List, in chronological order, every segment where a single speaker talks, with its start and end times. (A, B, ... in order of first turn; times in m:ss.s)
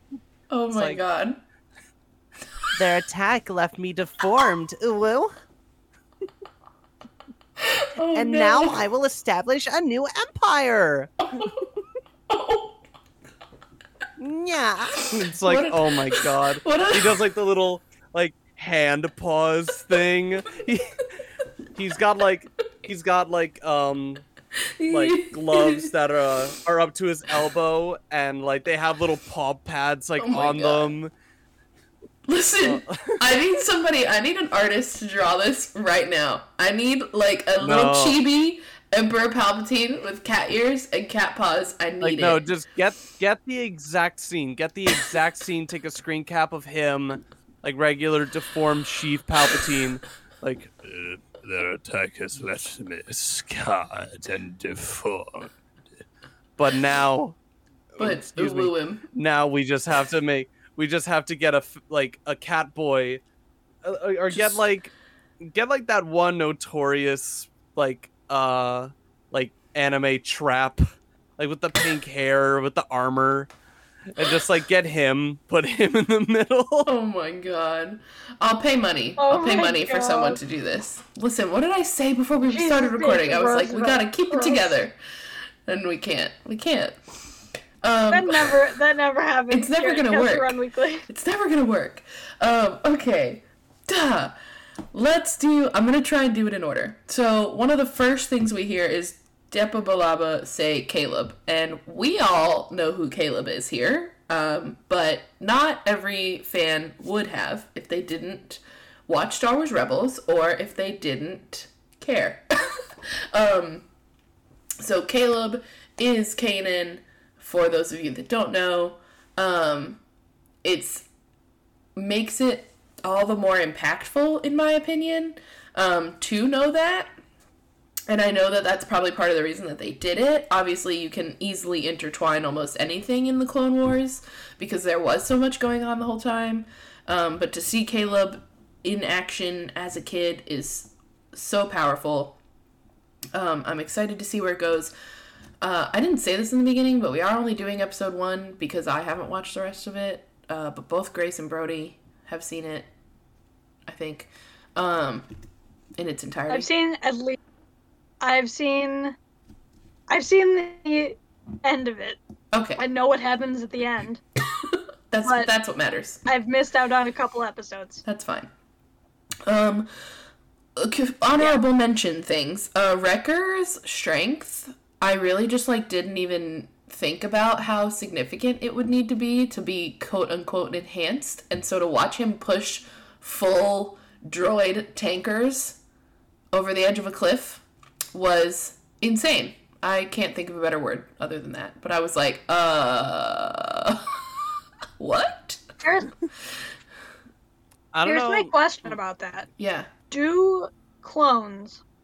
0:00.5-0:01.4 A
0:00.7-0:01.0 B
0:02.8-0:05.4 B
0:07.6-0:08.8 A
0:08.2-0:11.5 B
0:11.4-0:11.7 A
0:12.3-0:12.8 A
0:14.2-0:21.0 B
0:15.0-0:17.3 A
0:21.8-0:24.2 B
0:24.8-0:25.9 A
0:24.9-0:31.1 B
0:30.2-0:31.0 A
0:32.3-0:42.4 A
0:32.6-0:33.3 B
0:37.6-0:38.2 B
0:42.0-0:55.5 B
0:56.6-0:57.4 B
0:57.9-1:03.2 B
0:58.0-0:59.0 A
1:03.8-1:10.8 B
1:11.4-1:13.5 B
1:14.2-1:16.9 B
1:16.9-1:25.0 A
1:19.2-1:20.4 C
1:22.5-1:24.8 C
1:25.7-1:27.0 A
1:27.8-1:28.5 A
1:28.1-1:31.1 C
1:29.5-1:30.6 A
1:31.1-1:34.3 A
1:34.9-1:53.8 A
1:54.8-2:00.0 A
2:00.6-2:01.1 A
2:02.0-2:07.1 A
2:08.1-2:22.4 A
2:23.3-2:24.9 A
2:25.6-2:32.9 A
2:33.9-2:35.3 A
2:36.0-2:36.7 A
2:36.5-2:37.4 C
2:38.2-2:39.2 C
2:40.1-2:42.2 C
2:42.5-2:42.8 A
2:42.8-2:44.2 C
2:44.6-2:46.2 A
2:45.2-2:45.5 C
2:46.3-2:48.0 C
2:48.0-2:48.5 A
2:49.4-2:49.9 A
2:50.8-3:05.8 A
3:06.5-3:14.5 A
3:15.0-3:15.6 A
3:15.8-3:16.1 C
3:17.9-3:19.0 B
3:18.0-3:19.5 C
3:19.6-3:19.9 A
3:20.1-3:21.8 C